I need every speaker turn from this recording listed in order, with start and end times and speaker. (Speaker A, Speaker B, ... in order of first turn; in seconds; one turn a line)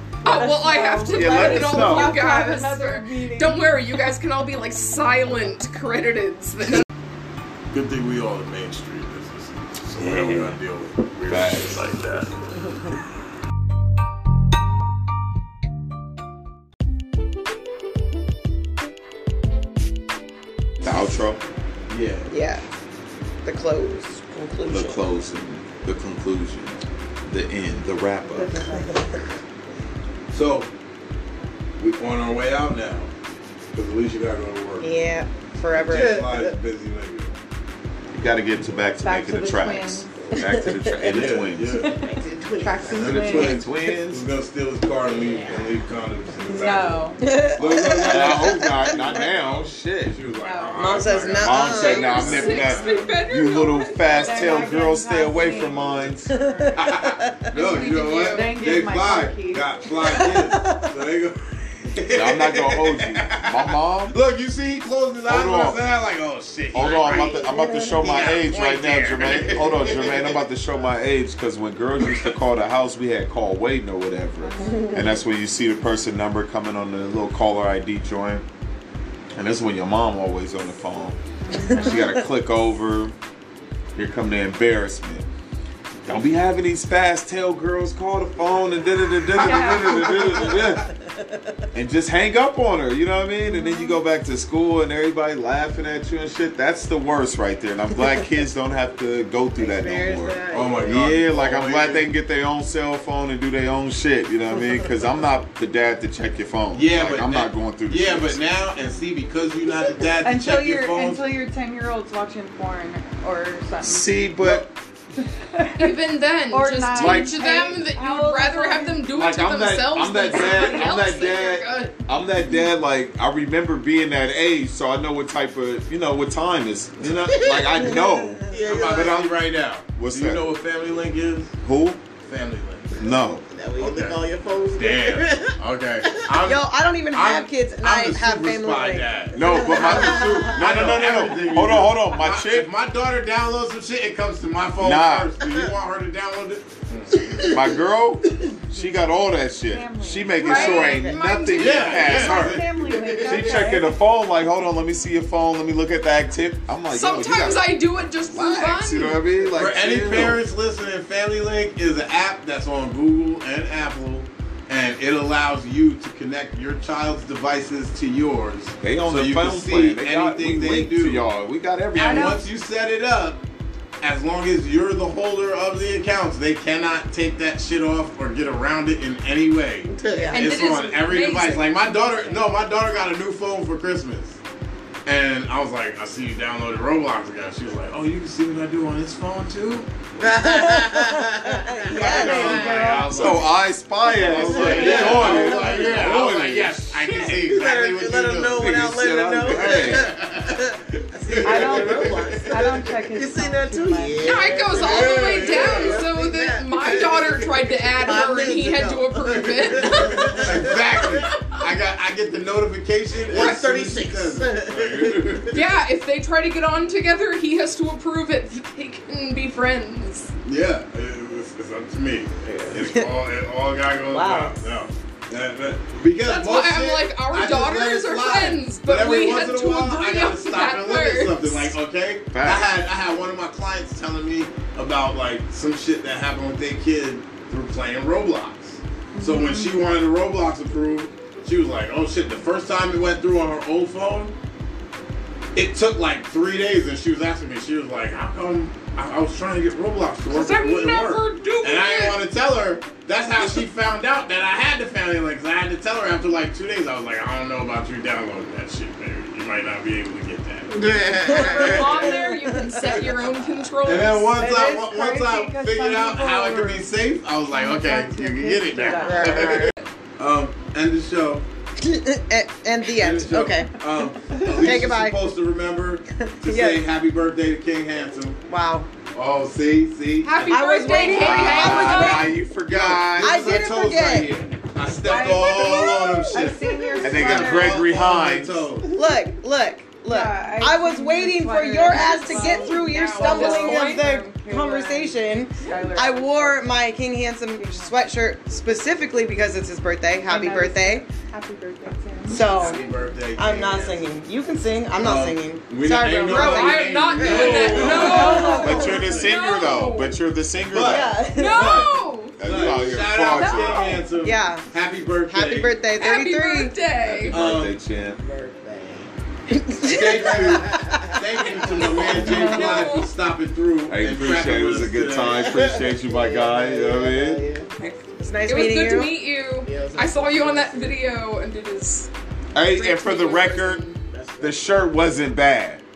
Speaker A: 0.2-3.8
Speaker B: 0.2-6.8
Speaker C: 1.1-2.2
Speaker D: 7.7-12.3
Speaker C: 10.1-10.3
Speaker C: 11.3-11.9
Speaker C: 20.8-21.4
Speaker D: 21.9-22.3
Speaker E: 22.3-22.6
Speaker E: 23.4-25.0
Speaker C: 24.7-28.6
Speaker A: 28.3-29.1
Speaker D: 30.3-30.7
Speaker D: 31.8-33.1
Speaker D: 33.7-34.9
Speaker E: 34.8-36.2
Speaker D: 35.8-37.3
Speaker F: 35.9-36.5
Speaker C: 38.1-41.8
Speaker A: 39.0-40.4
Speaker D: 41.0-41.9
Speaker A: 41.8-43.6
Speaker F: 42.0-43.3
Speaker D: 42.9-49.5
Speaker C: 43.0-44.3
Speaker F: 45.1-45.7
Speaker A: 46.5-47.2
Speaker E: 47.2-48.9
Speaker C: 47.8-50.2
Speaker D: 50.0-53.2
Speaker A: 50.3-50.9
Speaker E: 50.8-52.4
Speaker C: 51.4-56.3
Speaker B: 51.7-54.6
Speaker A: 54.0-56.9
Speaker E: 56.3-57.3
Speaker D: 56.7-70.4
Speaker B: 57.5-58.5
Speaker A: 57.5-59.7
Speaker E: 60.0-60.6
Speaker C: 62.1-64.1
Speaker C: 65.2-65.8
Speaker C: 66.7-78.4
Speaker F: 67.0-67.8
Speaker E: 67.7-68.2
Speaker D: 72.0-72.3
Speaker A: 74.4-75.0
Speaker C: 79.3-83.1
Speaker A: 81.5-81.8
Speaker E: 81.6-82.0
Speaker C: 83.9-85.2
Speaker C: 86.0-90.9
Speaker A: 89.3-90.5
Speaker D: 89.3-90.8
Speaker C: 91.7-108.4
Speaker F: 99.6-101.0
Speaker D: 100.5-102.1
Speaker D: 106.7-111.2
Speaker A: 110.2-114.6
Speaker C: 113.8-114.7
Speaker A: 115.2-115.9
Speaker B: 115.8-121.9
Speaker A: 116.5-119.1
Speaker C: 117.0-117.4
Speaker C: 119.1-128.5
Speaker F: 127.2-127.7
Speaker E: 127.8-128.3
Speaker F: 128.5-129.3
Speaker D: 128.6-131.5
Speaker C: 129.9-130.5
Speaker C: 131.6-132.0
Speaker D: 132.2-132.9
Speaker C: 133.0-133.5
Speaker F: 133.5-135.6
Speaker D: 133.8-134.2
Speaker D: 134.8-147.6
Speaker E: 136.4-140.5
Speaker C: 139.3-142.7
Speaker C: 144.8-145.3
Speaker C: 147.5-152.7
Speaker A: 149.7-151.0
Speaker B: 150.4-152.2
Speaker E: 150.4-151.2
Speaker D: 151.5-153.7
Speaker A: 151.9-154.0
Speaker C: 153.2-160.4
Speaker B: 156.9-159.2
Speaker D: 159.5-171.2
Speaker C: 168.8-172.4
Speaker D: 171.9-173.4
Speaker A: 171.9-172.4
Speaker D: 174.0-184.4
Speaker F: 179.9-180.4
Speaker E: 180.1-180.5
Speaker B: 180.3-181.7
Speaker D: 185.1-190.6
Speaker F: 190.2-193.1
Speaker E: 190.3-192.7
Speaker D: 191.9-198.9
Speaker A: 192.1-193.4
Speaker C: 192.2-197.2
Speaker F: 194.1-196.1
Speaker F: 197.2-211.3
Speaker C: 198.5-200.1
Speaker D: 199.5-200.6
Speaker D: 201.2-202.7
Speaker A: 201.4-204.3
Speaker B: 204.2-210.4
Speaker D: 204.7-206.0
Speaker D: 210.4-215.5
Speaker B: 211.3-211.6
Speaker F: 213.3-215.6
Speaker C: 214.7-215.4
Speaker B: 215.5-220.3
Speaker D: 220.4-244.3
Speaker F: 222.4-222.8
Speaker E: 222.7-223.1
Speaker E: 224.1-224.6
Speaker B: 226.2-231.8
Speaker C: 232.3-232.8
Speaker A: 239.2-239.8
Speaker D: 245.5-260.9
Speaker B: 250.3-252.2
Speaker F: 260.7-262.1
Speaker B: 261.2-264.3
Speaker E: 261.2-263.6
Speaker D: 261.6-262.1
Speaker D: 263.8-271.4
Speaker A: 264.3-266.9
Speaker A: 267.5-269.7
Speaker E: 269.0-269.7
Speaker E: 271.8-273.7
Speaker D: 272.9-278.4
Speaker E: 274.4-275.3
Speaker E: 276.3-276.9
Speaker E: 278.5-278.9
Speaker D: 279.1-281.1
Speaker B: 280.2-282.4
Speaker E: 280.4-282.4
Speaker C: 281.1-283.5
Speaker D: 282.6-288.9
Speaker E: 283.2-284.3
Speaker A: 285.0-288.0
Speaker B: 285.1-286.8
Speaker C: 287.0-288.6
Speaker E: 288.9-301.0
Speaker A: 290.1-296.9
Speaker B: 291.9-294.2
Speaker A: 297.5-298.0
Speaker A: 300.2-303.1
Speaker E: 302.3-302.8
Speaker D: 302.3-304.2
Speaker E: 303.3-308.6
Speaker D: 305.0-309.3
Speaker B: 306.2-310.2
Speaker C: 307.3-311.2
Speaker F: 307.3-308.0
Speaker A: 307.7-309.3
Speaker D: 310.6-315.8
Speaker E: 310.8-311.9
Speaker B: 311.3-312.4
Speaker C: 312.4-314.0
Speaker B: 313.1-314.0
Speaker E: 314.1-314.6
Speaker E: 315.3-316.7
Speaker B: 316.0-317.4
Speaker C: 317.0-318.2
Speaker D: 317.3-317.8
Speaker F: 318.1-319.1
Speaker E: 319.6-320.4
Speaker D: 319.8-325.6
Speaker F: 319.9-322.0
Speaker B: 321.7-323.1
Speaker C: 322.1-322.8
Speaker C: 323.9-327.4
Speaker F: 325.5-327.7
Speaker B: 327.8-332.1
Speaker E: 328.2-329.1
Speaker F: 329.6-331.0
Speaker C: 332.5-333.9
Speaker B: 332.7-333.8
Speaker F: 333.9-334.9
Speaker C: 334.4-335.8